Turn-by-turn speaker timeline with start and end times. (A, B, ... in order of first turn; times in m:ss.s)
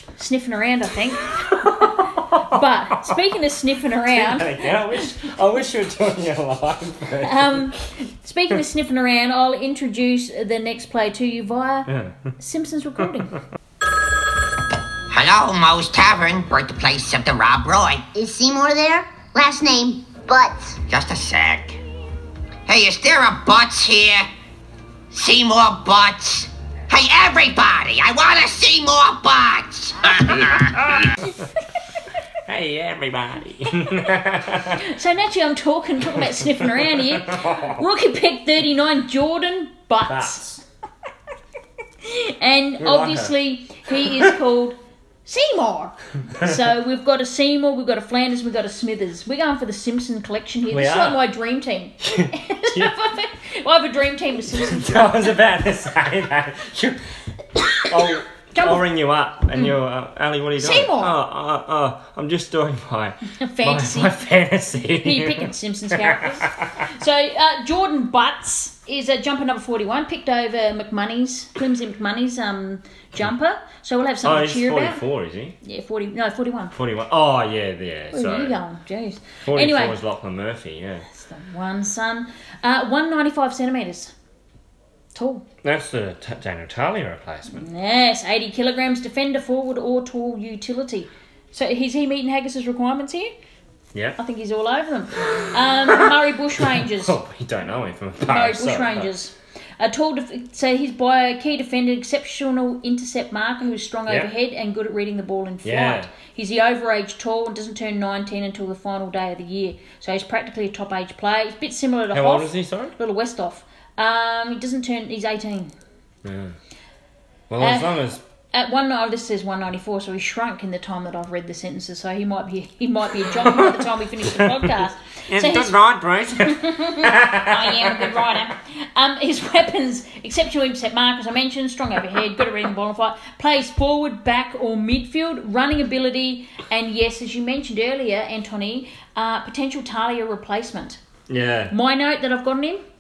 0:00.2-0:05.3 A
0:01.3-0:03.1 B
0:04.1-0:07.7 B
0:07.2-0:13.4 A
0:11.9-0:12.3 B
0:15.1-0:18.0 C
0:18.1-0:20.8 D
0:20.9-0:21.8 C
0:22.7-0:24.3 C
0:25.1-0:31.0 C
0:30.3-0:31.1 B
0:32.5-0:34.8 B
0:34.8-0:40.6 A
0:36.2-0:37.8 B
0:40.0-0:40.6 B
0:42.0-0:55.2 A
0:42.8-0:43.4 B
0:43.9-0:44.3 B
0:50.7-0:51.2 B
0:52.0-0:52.9 B
0:54.5-0:57.0 B
0:57.6-0:58.8 A
0:57.9-1:06.7 B
1:00.6-1:01.2 A
1:03.3-1:04.2 A
1:05.0-1:15.0 A
1:14.2-1:15.6 B
1:15.6-1:16.7 A
1:16.7-1:18.6 B
1:18.1-1:20.0 A
1:19.4-1:21.1 B
1:21.1-1:24.1 A
1:25.1-1:25.5 A
1:25.6-1:27.7 B
1:27.5-1:33.3 A
1:34.2-1:37.2 A
1:36.6-1:39.1 B
1:38.2-1:55.7 A
1:45.6-1:46.1 B
1:52.1-1:52.9 B
1:56.2-1:56.6 B
1:57.5-1:58.2 B
1:57.6-2:05.8 A
2:03.3-2:08.4 B
2:06.4-2:21.0 A
2:21.3-2:21.7 B
2:21.7-2:22.8 A